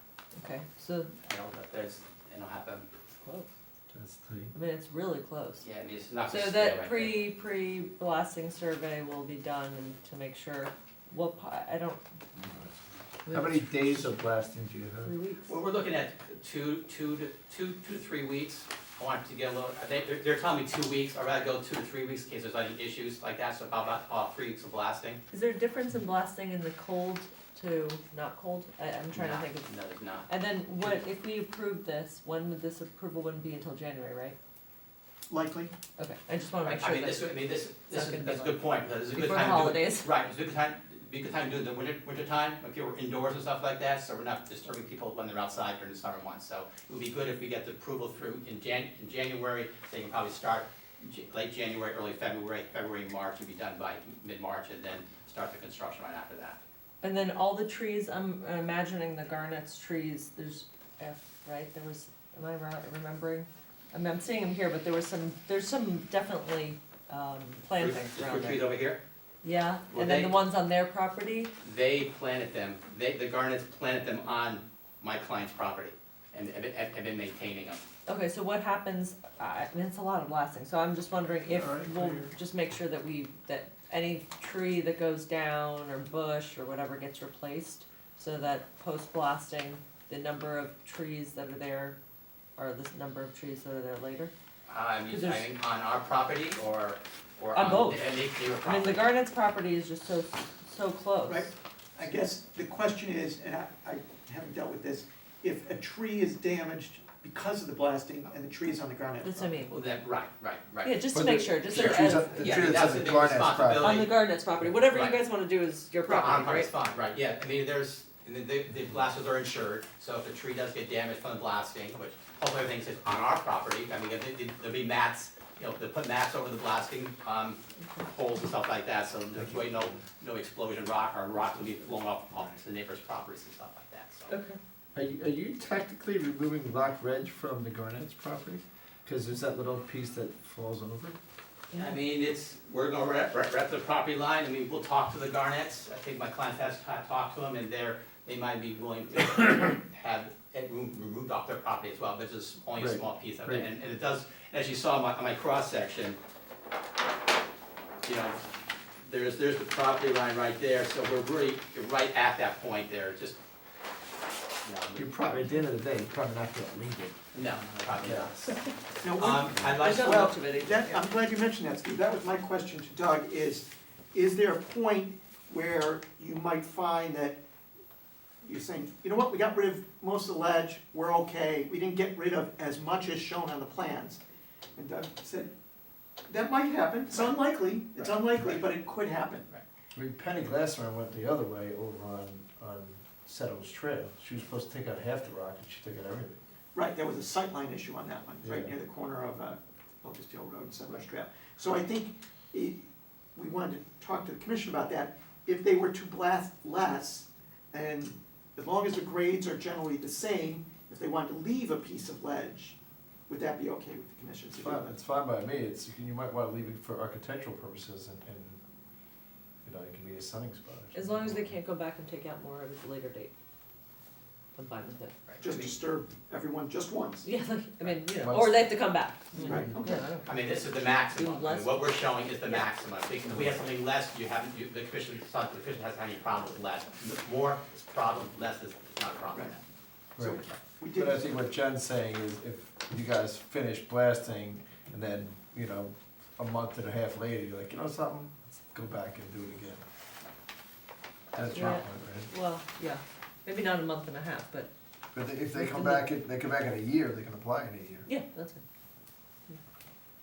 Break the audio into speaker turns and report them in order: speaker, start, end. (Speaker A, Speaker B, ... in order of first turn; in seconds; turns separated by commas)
Speaker A: 0.3-1.1, Speaker B: 1.3-2.9, Speaker A: 3.2-3.5, Speaker C: 3.9-4.5, Speaker A: 4.5-5.7, Speaker B: 5.6-7.3, Speaker A: 6.3-12.0, Speaker C: 12.3-12.8, Speaker A: 13.2-14.1, Speaker C: 13.3-15.1, Speaker A: 15.0-15.6, Speaker B: 15.5-25.2, Speaker A: 25.3-29.7, Speaker B: 29.1-30.3, Speaker A: 30.3-34.4, Speaker D: 35.3-35.7, Speaker A: 36.0-37.3, Speaker B: 36.6-56.6, Speaker A: 37.9-40.1, Speaker A: 57.0-68.7, Speaker B: 67.8-69.0, Speaker A: 69.4-71.5, Speaker B: 69.9-70.4, Speaker B: 71.6-77.8, Speaker A: 78.1-92.0, Speaker C: 81.5-82.3, Speaker A: 92.6-94.3, Speaker B: 94.7-99.1, Speaker A: 95.1-95.5, Speaker A: 97.5-101.5, Speaker D: 101.3-109.6, Speaker A: 109.2-109.7, Speaker B: 109.7-111.0, Speaker A: 110.8-112.9, Speaker C: 111.1-114.0, Speaker B: 111.7-114.1, Speaker A: 113.8-116.7, Speaker B: 114.8-115.2, Speaker B: 116.1-134.3, Speaker A: 127.8-128.1, Speaker C: 129.4-130.0, Speaker A: 134.3-134.6, Speaker C: 134.9-141.2, Speaker A: 141.7-142.0, Speaker B: 141.8-156.2, Speaker C: 152.8-153.7, Speaker B: 158.0-158.4, Speaker B: 159.0-163.4, Speaker B: 164.6-165.4, Speaker C: 165.0-168.4, Speaker B: 167.3-168.6, Speaker D: 169.0-177.4, Speaker B: 169.1-170.3, Speaker A: 169.8-170.9, Speaker D: 178.4-184.2, Speaker D: 184.8-185.5, Speaker D: 186.3-189.5, Speaker B: 188.0-188.6, Speaker C: 189.9-196.4, Speaker D: 196.7-202.8, Speaker C: 198.4-198.7, Speaker D: 203.3-212.8, Speaker D: 213.3-214.9, Speaker C: 214.6-218.6, Speaker C: 219.6-221.5, Speaker A: 220.9-223.3, Speaker A: 224.6-225.2, Speaker B: 225.3-225.7, Speaker D: 225.4-227.3, Speaker A: 227.2-231.8, Speaker C: 228.2-228.8, Speaker D: 229.3-230.1, Speaker C: 229.4-230.0, Speaker B: 230.3-239.6, Speaker C: 240.2-249.8, Speaker D: 240.2-241.2, Speaker C: 251.3-252.3, Speaker B: 251.3-251.6, Speaker A: 251.5-254.7, Speaker C: 255.1-258.1, Speaker A: 255.5-256.1, Speaker A: 258.1-258.6